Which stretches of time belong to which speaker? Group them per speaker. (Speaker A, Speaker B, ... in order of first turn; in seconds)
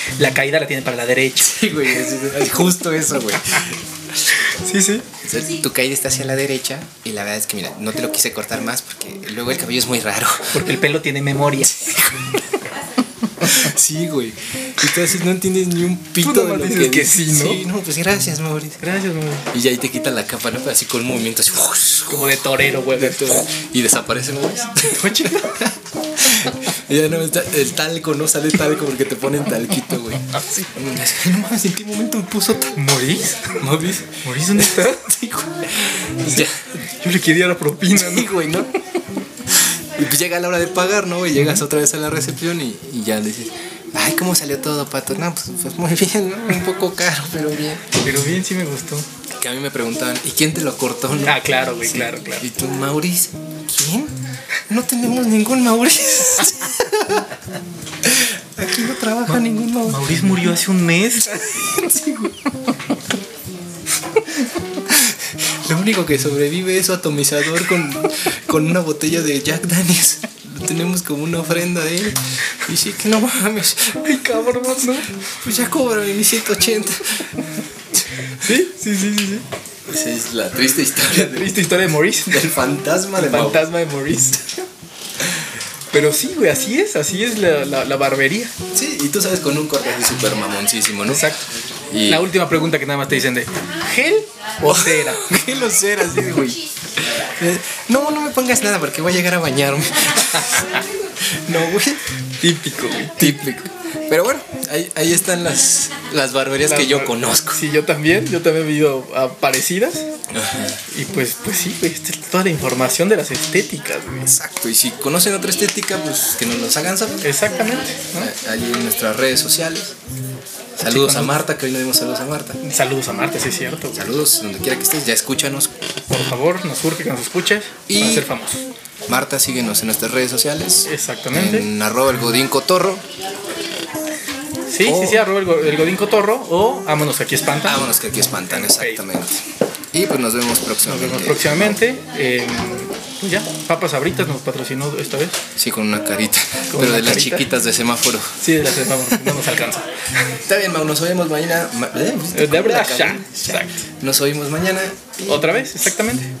Speaker A: 0.2-1.6, 4.4-5.0, 10.5-11.9, 16.2-17.6, 18.8-19.5, 22.1-23.5, 24.8-25.7, 30.4-30.6, 32.7-35.1, 36.2-38.3, 48.0-49.1, 51.2-52.5, 59.3-61.7, 74.0-75.1, 78.3-79.4, 81.1-82.5, 83.1-84.5, 85.9-88.5, 91.1-91.5, 92.0-95.4, 102.4-103.5, 106.6-110.1, 110.9-114.3, 117.2-118.3, 120.8-121.4, 122.6-124.1, 126.1-128.6, 130.8-131.7, 134.7-137.9, 138.5-139.0, 140.8-145.4, 146.7-147.5, 148.4-149.9, 152.3-153.8, 155.2-156.3
Speaker B: 1.4-4.3, 5.2-10.8, 11.6-12.4, 13.4-18.8, 19.5-32.8, 33.5-36.7, 37.9-38.7, 39.5-47.9, 49.3-54.1, 54.7-57.3, 58.0-60.1, 61.3-62.3, 64.8-77.3, 79.8-83.7, 88.7-91.3, 91.9-92.3, 94.6-102.0, 103.2-107.6, 110.3-110.8, 114.3-117.3, 118.1-119.9, 120.8-122.6, 123.9-125.8, 127.9-128.3, 129.1-133.0, 134.8-135.3, 137.6-139.4, 139.9-141.8, 145.6-149.4, 150.3-155.1